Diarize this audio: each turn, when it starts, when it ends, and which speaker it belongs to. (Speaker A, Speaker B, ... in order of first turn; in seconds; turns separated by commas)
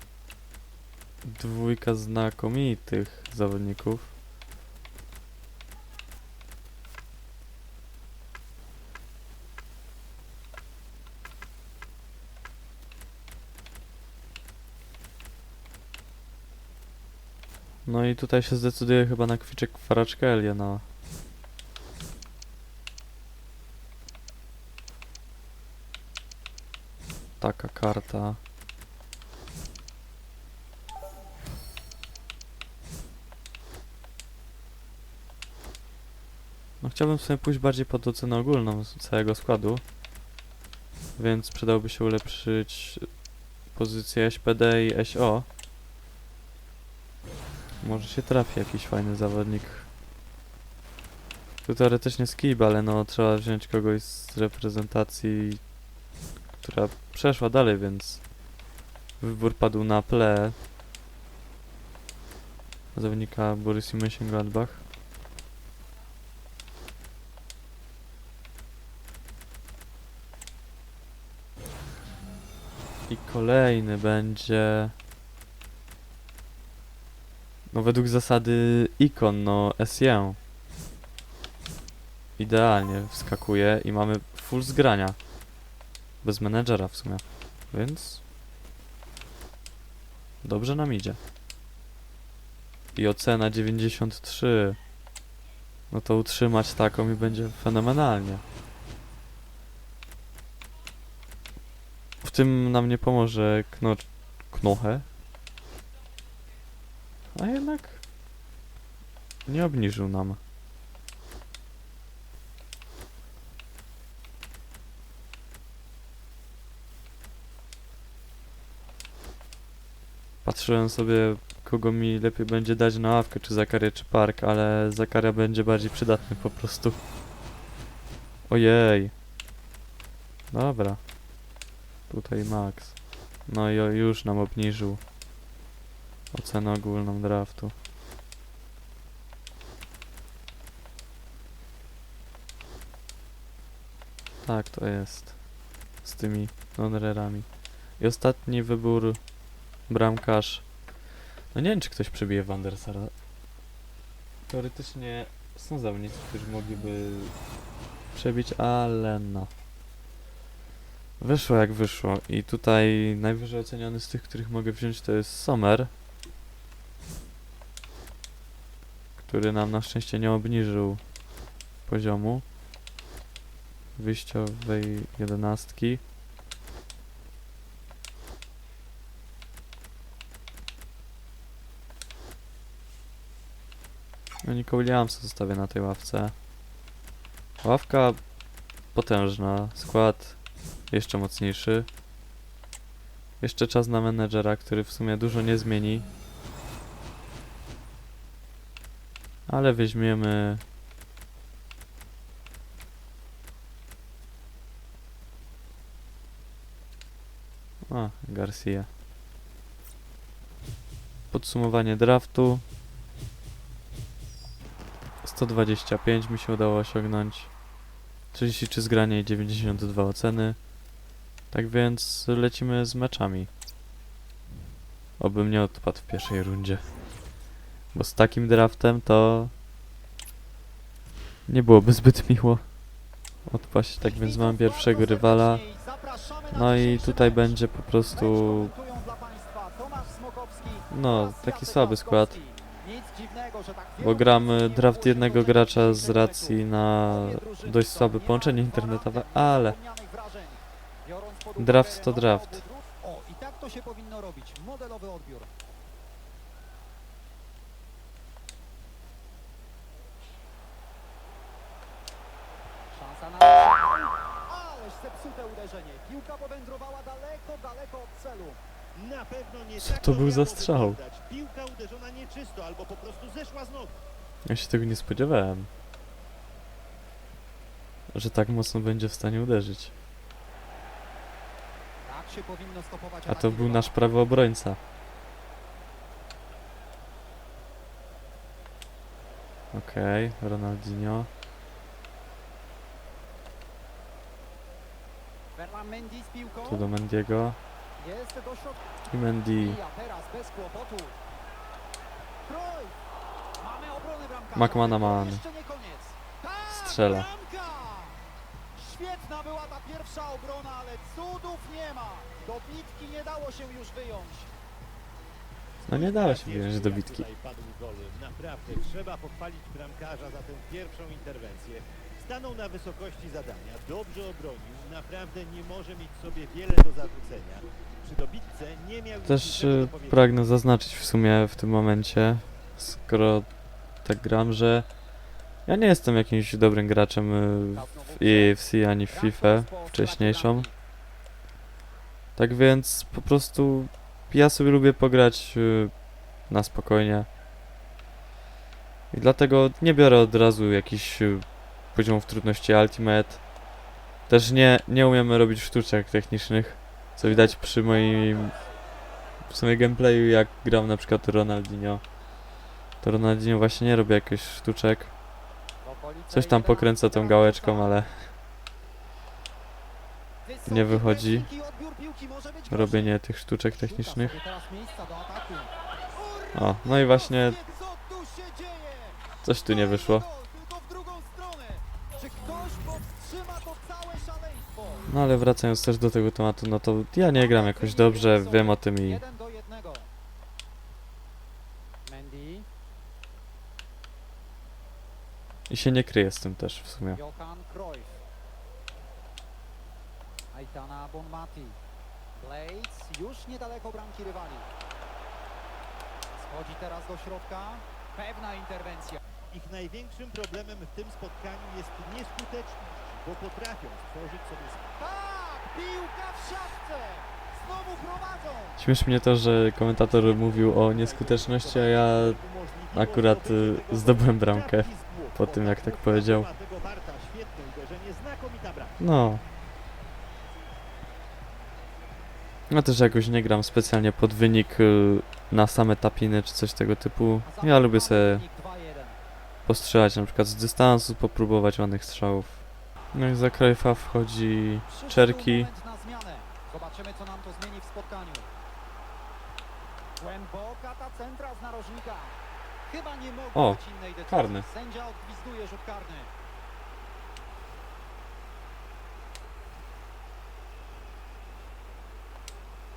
Speaker A: 1.2-4.1, Speaker A: 17.9-20.8, Speaker A: 27.4-28.4, Speaker A: 36.8-39.8, Speaker A: 41.2-43.1, Speaker A: 43.7-45.5, Speaker A: 47.8-49.9, Speaker A: 51.6-55.6, Speaker A: 56.6-58.2, Speaker A: 59.2-60.5, Speaker A: 62.9-64.8, Speaker A: 73.1-74.9, Speaker A: 77.7-80.4, Speaker A: 82.4-85.2, Speaker A: 86.2-88.2, Speaker A: 90.4-91.2, Speaker A: 92.9-94.8, Speaker A: 95.9-98.4, Speaker A: 102.2-105.0, Speaker A: 107.3-108.0, Speaker A: 109.5-110.4, Speaker A: 120.4-127.0, Speaker A: 128.5-129.1, Speaker A: 130.5-131.0, Speaker A: 132.1-135.0, Speaker A: 136.3-137.7, Speaker A: 144.4-145.3, Speaker A: 146.0-147.5, Speaker A: 148.0-149.2, Speaker A: 149.9-150.7, Speaker A: 151.5-153.1, Speaker A: 154.5-157.3, Speaker A: 158.1-159.5, Speaker A: 161.2-165.9, Speaker A: 169.2-171.0, Speaker A: 171.9-172.4, Speaker A: 173.9-176.0, Speaker A: 184.4-186.3, Speaker A: 187.6-188.2, Speaker A: 188.9-190.4, Speaker A: 190.9-191.9, Speaker A: 193.4-196.1, Speaker A: 199.5-200.6, Speaker A: 207.9-208.9, Speaker A: 211.3-212.6, Speaker A: 215.2-217.5, Speaker A: 218.3-220.6, Speaker A: 221.5-223.5, Speaker A: 225.2-226.8, Speaker A: 227.9-229.5, Speaker A: 231.5-232.6, Speaker A: 233.5-235.6, Speaker B: 234.0-237.6, Speaker A: 236.5-238.7, Speaker B: 238.1-255.5, Speaker A: 240.9-242.4, Speaker A: 244.0-249.8, Speaker A: 251.6-252.6, Speaker B: 262.9-268.6, Speaker C: 268.9-274.0, Speaker A: 269.8-271.0, Speaker A: 274.5-275.7, Speaker A: 278.1-279.9, Speaker B: 282.0-284.0, Speaker A: 283.3-284.8, Speaker A: 289.7-291.3, Speaker B: 295.5-296.9, Speaker A: 296.7-297.6, Speaker B: 298.0-298.8, Speaker A: 299.1-299.8, Speaker B: 299.6-301.2, Speaker B: 302.4-303.0, Speaker B: 303.6-308.2, Speaker A: 304.5-305.4, Speaker A: 306.7-307.2, Speaker B: 308.7-314.5, Speaker A: 315.9-317.2, Speaker C: 315.9-330.3, Speaker A: 329.2-333.5, Speaker A: 334.0-334.9, Speaker A: 335.6-340.7, Speaker B: 337.7-338.6, Speaker B: 339.1-340.7, Speaker A: 342.4-345.9, Speaker A: 346.5-347.3, Speaker A: 349.1-353.4, Speaker A: 354.3-358.5, Speaker B: 357.2-358.6, Speaker A: 359.5-362.0, Speaker A: 363.0-365.1, Speaker B: 365.8-368.0, Speaker A: 366.3-368.3, Speaker B: 370.4-373.2, Speaker A: 370.6-371.5, Speaker A: 372.7-374.4, Speaker B: 373.8-385.1, Speaker A: 376.5-377.6, Speaker A: 379.4-380.2, Speaker A: 385.1-389.2, Speaker B: 387.2-390.1, Speaker B: 392.1-392.7, Speaker A: 395.7-397.2, Speaker B: 397.1-398.2, Speaker B: 400.5-401.8, Speaker B: 402.4-404.7, Speaker B: 406.4-409.2, Speaker C: 409.5-414.9, Speaker B: 415.0-418.8, Speaker A: 418.8-426.5, Speaker C: 420.2-429.0, Speaker A: 429.0-429.4, Speaker A: 432.7-438.4, Speaker B: 437.4-439.2, Speaker A: 439.6-445.7, Speaker B: 444.9-448.5, Speaker B: 450.2-452.4, Speaker B: 452.9-456.3, Speaker A: 453.5-454.7